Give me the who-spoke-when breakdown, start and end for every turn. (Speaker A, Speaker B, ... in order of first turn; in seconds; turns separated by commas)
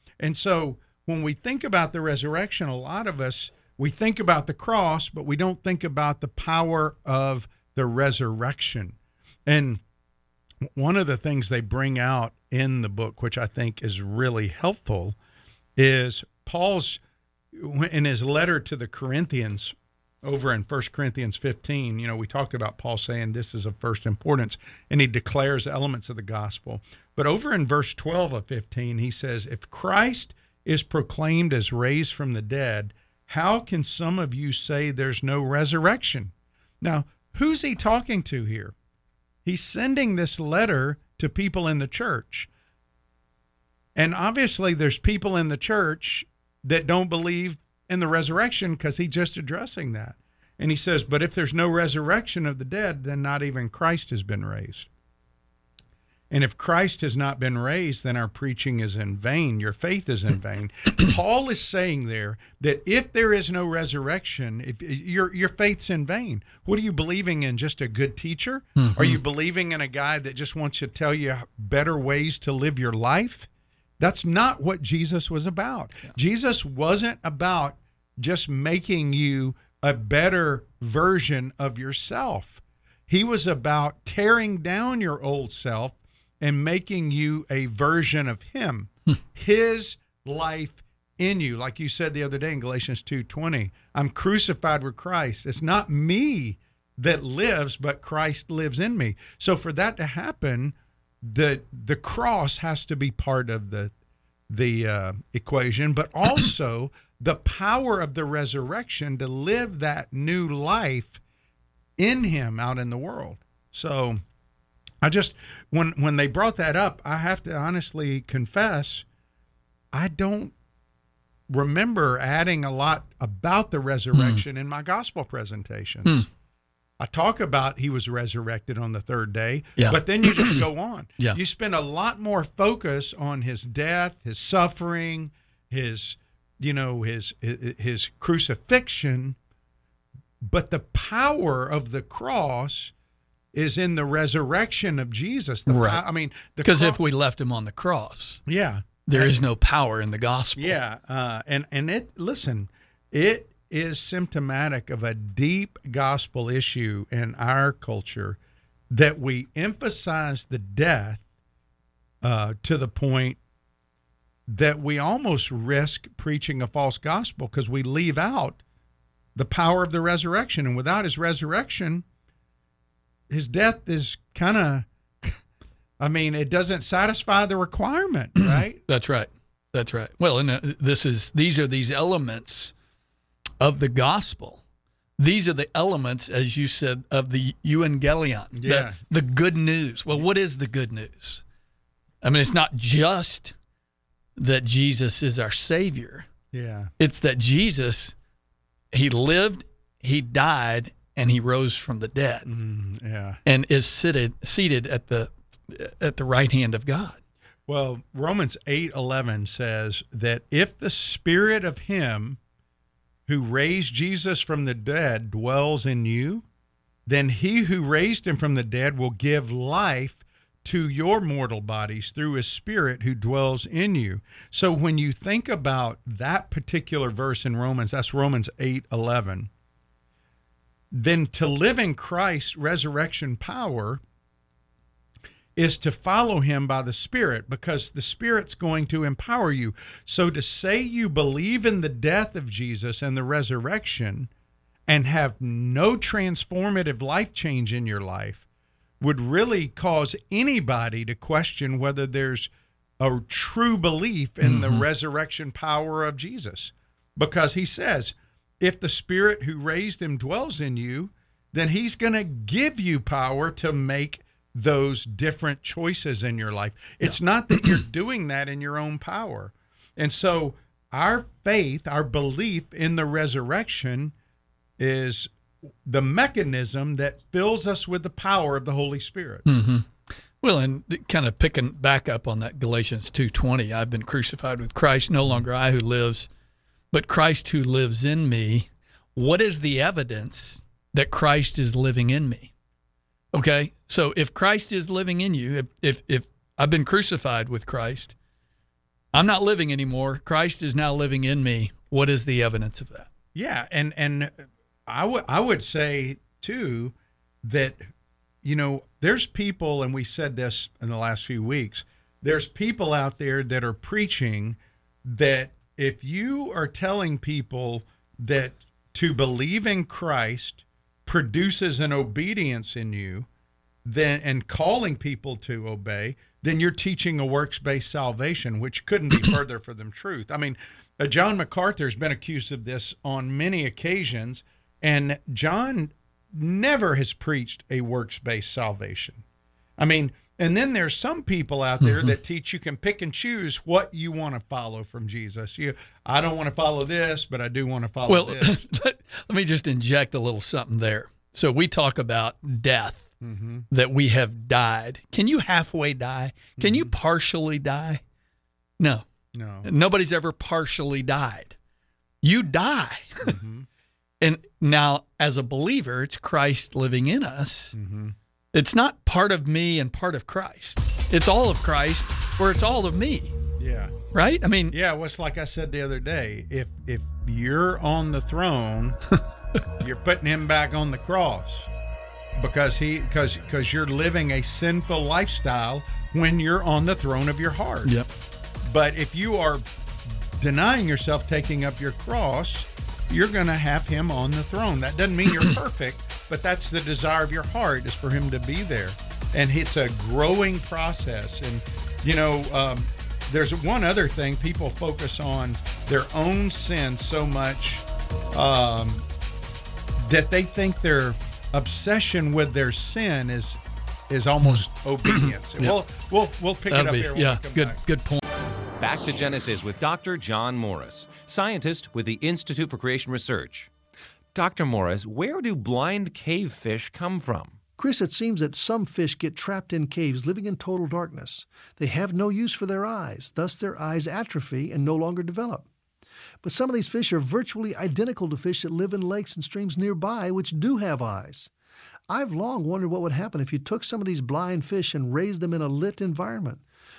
Speaker A: 0.2-9.8, Speaker A: 10.6-15.2, Speaker A: 15.8-17.0, Speaker A: 17.5-38.7, Speaker A: 39.4-42.5, Speaker A: 43.9-54.9, Speaker A: 56.3-73.5, Speaker B: 68.8-69.2, Speaker A: 74.0-103.9, Speaker A: 104.5-111.2, Speaker A: 112.0-114.2, Speaker A: 115.0-119.0, Speaker A: 119.9-120.5, Speaker A: 121.5-126.2, Speaker B: 124.1-124.4, Speaker A: 127.0-139.4, Speaker B: 129.8-130.6, Speaker A: 140.4-142.9, Speaker A: 143.5-147.0, Speaker B: 145.7-146.0, Speaker B: 146.6-148.4, Speaker A: 148.4-149.4, Speaker B: 149.1-150.8, Speaker A: 150.6-158.4, Speaker A: 158.9-161.2, Speaker A: 162.2-163.4, Speaker A: 164.5-168.6, Speaker A: 169.3-172.0, Speaker A: 173.3-175.4, Speaker A: 176.0-178.8, Speaker B: 178.4-182.7, Speaker B: 183.6-184.6, Speaker B: 185.2-191.4, Speaker A: 188.5-189.0, Speaker B: 192.2-193.5, Speaker B: 194.3-196.3, Speaker A: 196.5-196.9, Speaker B: 197.0-198.1, Speaker B: 198.9-202.5, Speaker A: 202.4-203.4, Speaker B: 203.4-207.2, Speaker A: 207.7-212.4, Speaker A: 213.3-216.4, Speaker A: 217.1-229.5, Speaker A: 230.9-234.0, Speaker A: 235.6-244.3, Speaker A: 244.9-248.4, Speaker A: 249.0-274.1, Speaker B: 254.4-254.8, Speaker B: 267.0-267.8, Speaker A: 274.8-275.3, Speaker A: 275.8-279.4, Speaker B: 279.4-279.9, Speaker B: 280.4-286.3, Speaker B: 286.9-292.5, Speaker B: 293.3-298.1, Speaker B: 299.1-303.1, Speaker A: 303.3-307.9, Speaker A: 308.4-323.3, Speaker A: 323.8-339.2, Speaker A: 339.8-348.6, Speaker B: 341.8-342.1, Speaker B: 348.1-353.1, Speaker A: 353.2-353.7, Speaker B: 353.7-358.0, Speaker A: 356.6-356.9, Speaker B: 358.8-359.1, Speaker A: 359.3-359.7, Speaker B: 359.6-361.5, Speaker B: 362.2-363.3, Speaker A: 363.2-363.7, Speaker B: 364.2-367.7, Speaker A: 367.7-368.1, Speaker B: 368.5-373.3, Speaker A: 373.6-373.9, Speaker B: 374.1-374.8, Speaker A: 374.7-379.0, Speaker A: 379.8-381.7, Speaker A: 382.4-387.9, Speaker A: 388.6-389.6, Speaker A: 390.4-409.0, Speaker A: 410.0-417.8, Speaker B: 414.4-415.8, Speaker B: 416.7-418.2, Speaker C: 418.8-423.7, Speaker C: 424.3-427.6, Speaker D: 427.8-435.7, Speaker D: 436.4-441.5, Speaker D: 442.1-446.6